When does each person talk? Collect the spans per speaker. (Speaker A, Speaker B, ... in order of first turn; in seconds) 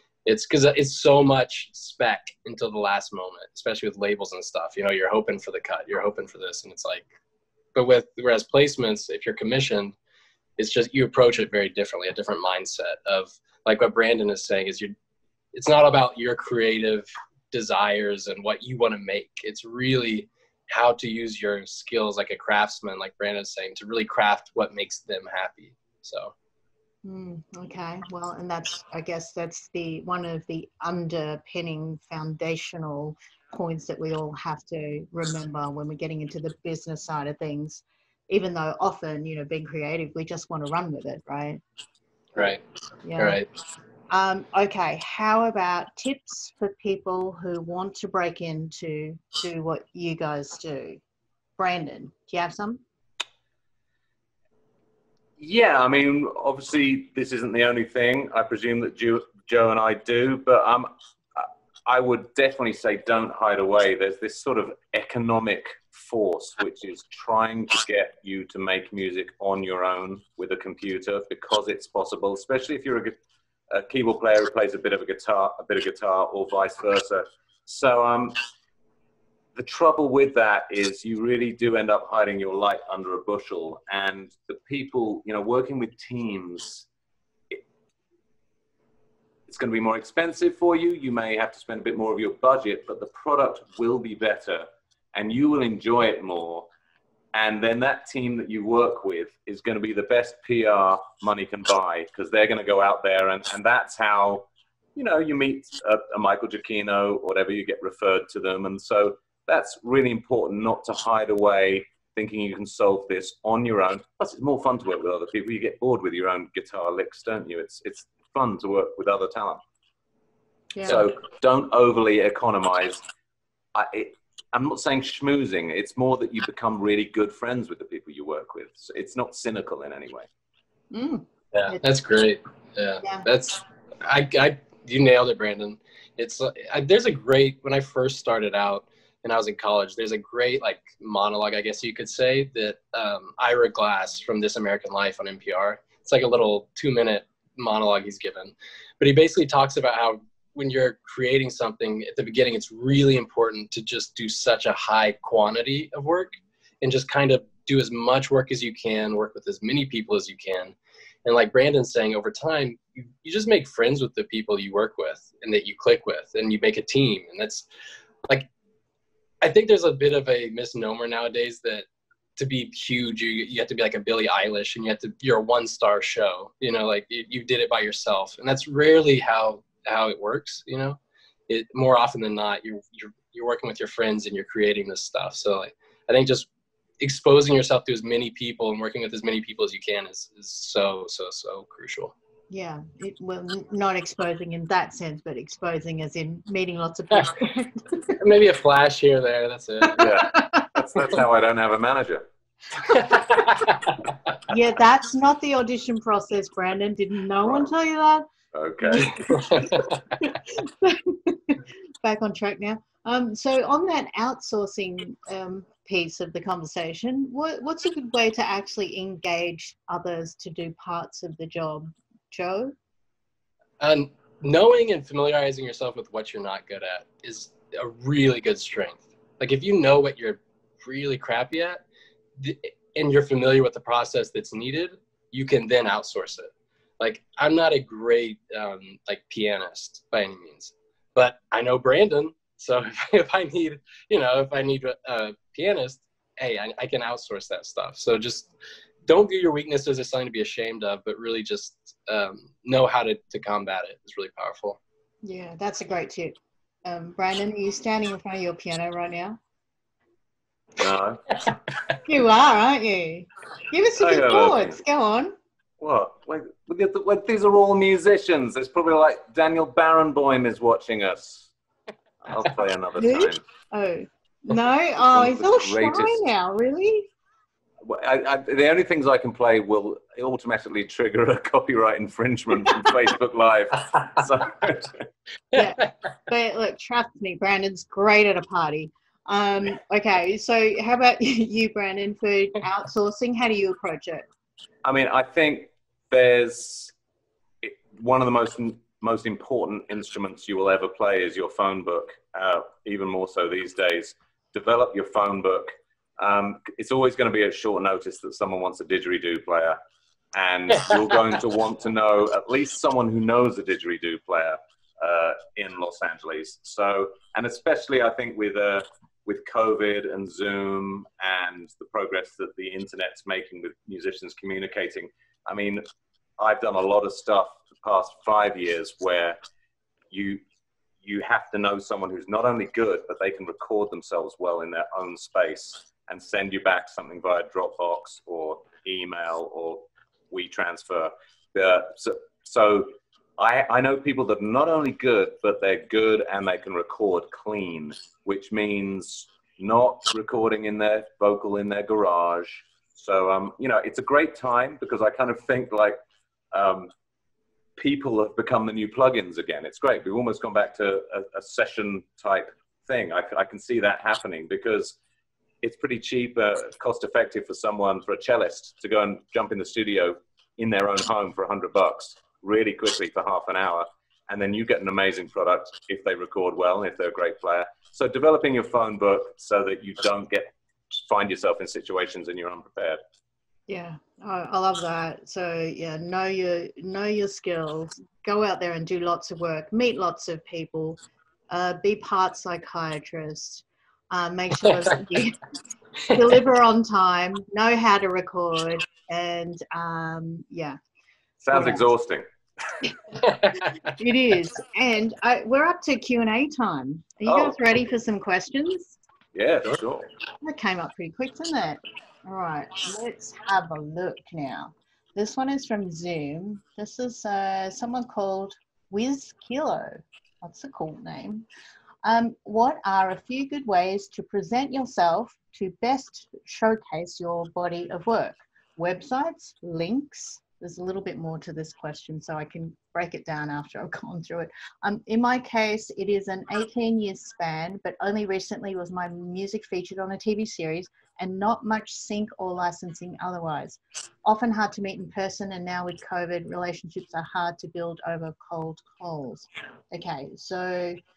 Speaker A: 0.2-7.1, 7.7-9.9, 10.6-14.9, 15.5-26.3, 42.3-42.6, 43.2-43.5, 131.5-167.7, 169.4-171.8, 172.4-186.5, 187.0-192.1, 198.2-200.1, 202.9-203.8, 209.2-209.9, 223.8-231.8, 232.4-248.5, 249.1-254.8
Speaker B: 27.0-41.6, 43.0-43.4, 44.1-51.0, 51.6-52.8, 120.7-121.1, 130.9-131.8, 192.5-198.1, 199.9-201.1, 202.9-203.4, 204.5-208.2, 208.8-222.7, 255.2-259.4, 262.0-265.3, 273.0-277.1, 285.5-294.3, 383.7-391.0, 391.5-395.4, 396.1-400.8, 401.5-401.9, 403.2-409.0, 410.4-421.4, 422.0-451.0
Speaker C: 55.4-73.2, 73.7-78.4, 79.5-86.9, 89.5-96.7, 97.3-119.6, 120.8-123.0, 123.7-130.3, 199.9-202.2, 207.4-207.7, 208.5-209.4, 260.8-261.5, 264.0-264.8, 265.8-271.5, 272.2-273.4, 275.0-276.2, 277.8-285.1, 294.8-296.9, 297.6-309.8, 310.3-325.8, 326.4-329.4, 330.1-330.4, 331.0-356.0, 356.5-356.9, 357.8-365.0, 365.6-383.0, 401.4-402.2, 407.2-407.6, 409.3-410.1